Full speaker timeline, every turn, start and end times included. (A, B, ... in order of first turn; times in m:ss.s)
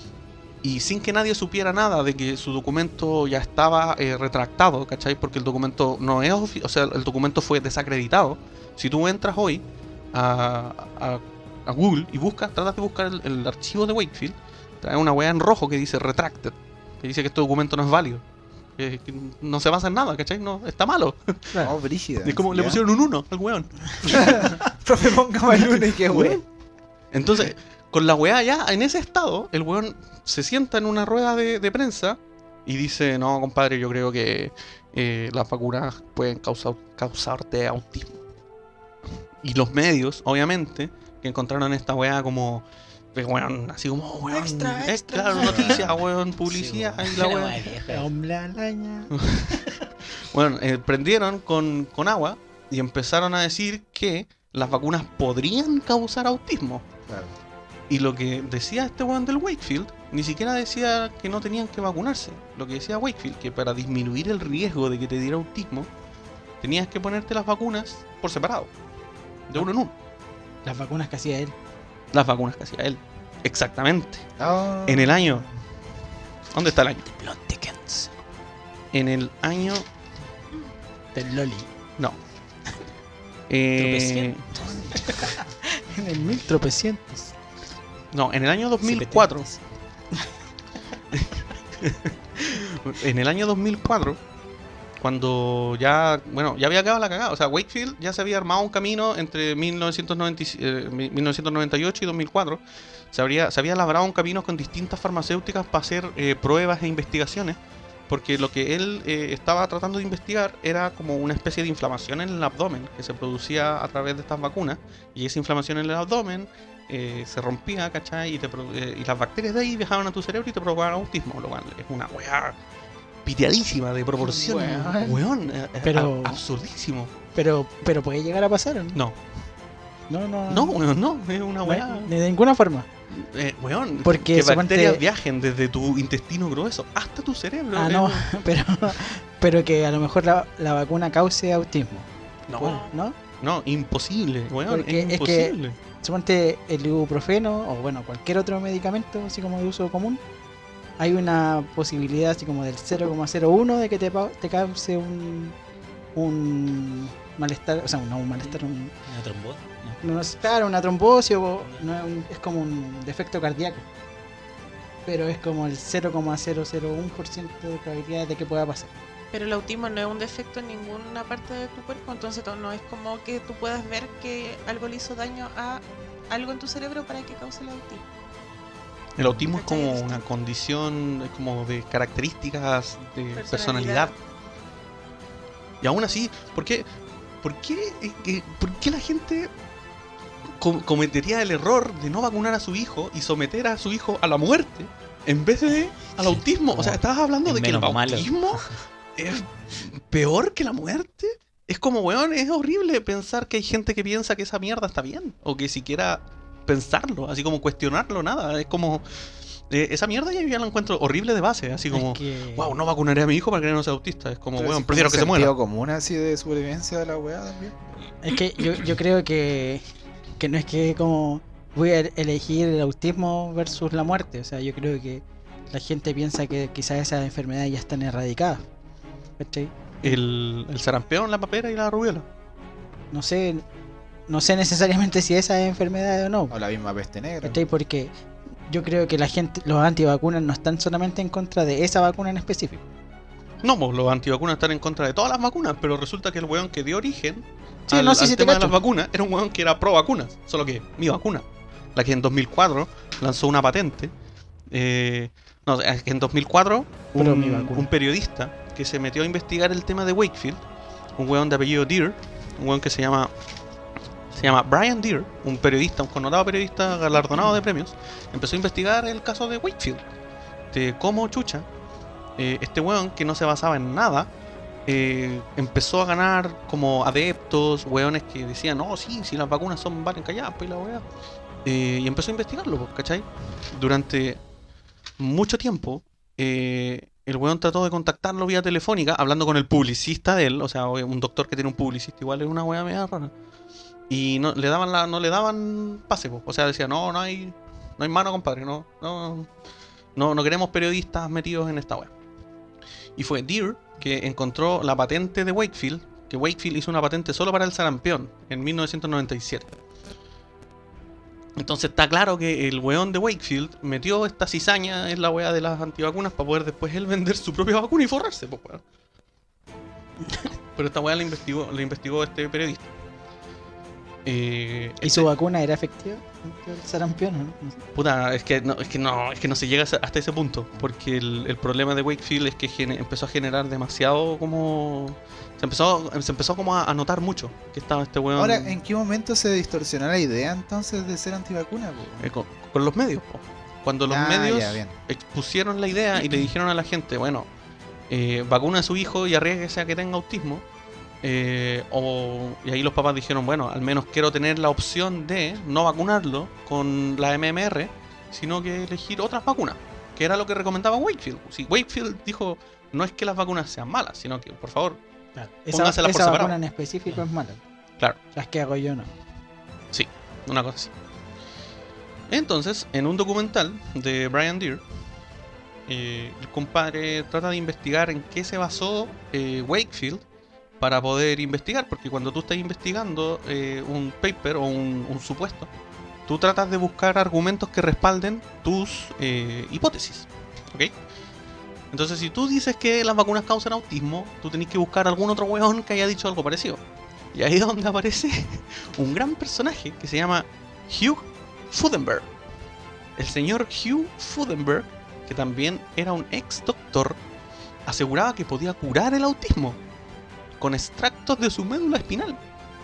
0:00.6-0:18.2 A
0:18.8-0:21.6 A
0:21.6-0:22.8 B
0:22.2-0:24.5 A
0:24.1-0:26.4 B
0:26.1-0:26.4 A
0:27.1-0:38.2 A
0:39.4-0:42.6 A
0:43.2-0:47.6 A
0:44.3-0:45.7 C
0:45.4-0:48.1 D
0:47.9-0:49.7 C
0:49.2-0:49.6 A
0:50.3-0:56.8 A
0:57.1-0:57.3 B
0:57.9-1:05.9 A
1:06.6-1:08.7 A
1:09.5-1:09.9 A
1:10.6-1:11.6 C
1:12.1-1:14.3 A
1:14.4-1:15.5 B
1:14.9-1:15.4 A
1:16.5-1:17.1 A
1:17.1-1:18.1 D
1:18.9-1:19.8 A
1:21.2-1:21.7 C
1:23.5-1:24.4 A
1:23.8-1:25.2 D
1:25.0-1:27.3 C
1:28.1-1:29.5 A
1:28.8-1:29.6 D
1:31.1-1:34.2 A
1:35.0-1:42.6 A
1:43.1-1:47.6 A
1:48.1-2:02.6 A
2:03.2-2:07.1 A
2:04.2-2:05.2 B
2:05.8-2:06.4 C
2:07.4-2:09.0 C
2:10.1-2:10.8 C
2:10.5-2:12.1 A
2:11.6-2:12.9 C
2:13.1-2:18.3 A
2:14.0-2:15.0 C
2:17.8-2:23.2 C
2:22.5-2:22.9 A
2:23.4-2:25.8 A
2:24.7-2:30.2 C
2:31.0-2:35.6 C
2:36.2-2:38.9 C
2:38.4-2:40.0 D
2:40.0-2:43.8 C
2:45.1-2:49.0 C
2:49.3-2:58.0 E
2:59.2-3:04.1 A
2:59.4-3:00.2 E
3:03.4-3:04.1 E
3:05.8-3:06.9 A
3:07.4-3:09.5 A
3:10.6-3:29.0 A
3:16.2-3:18.7 D
3:29.7-3:35.5 A
3:31.9-3:32.7 C
3:34.6-3:37.8 B
3:38.2-3:39.8 C
3:40.4-3:48.7 C
3:49.4-3:50.2 C
3:50.0-3:52.2 A
3:53.1-3:53.6 C
3:54.3-3:56.6 C
3:56.5-3:57.6 B
3:57.4-3:58.1 C
3:58.7-4:02.8 C
4:03.6-4:14.1 A
4:07.9-4:08.8 C
4:14.7-4:20.6 A
4:17.2-4:17.9 C
4:21.2-4:23.3 A
4:24.3-4:30.0 A
4:30.7-4:31.7 A
4:32.4-4:34.3 A
4:34.9-4:41.0 A
4:41.6-4:44.4 A
4:45.2-4:53.3 A
4:54.1-4:59.5 A
5:00.2-5:02.1 A
5:03.2-5:09.7 A
5:11.6-5:18.8 A
5:20.8-5:22.9 A
5:24.2-5:25.3 A
5:25.0-5:27.8 C
5:28.0-5:38.8 A
5:38.4-5:42.3 B
5:42.2-5:47.5 A
5:44.1-5:44.9 B
5:48.1-5:50.6 A
5:51.2-6:05.0 A
6:05.4-6:07.6 C
6:05.7-6:06.6 A
6:08.3-6:09.1 C
6:09.9-6:10.9 A
6:12.3-6:14.8 A
6:15.9-6:20.2 A
6:20.8-6:25.7 A
6:26.3-6:30.9 A
6:31.9-6:36.8 A
6:37.3-6:42.3 A
6:43.2-6:47.2 A
6:47.9-6:49.8 A
6:50.6-6:52.4 A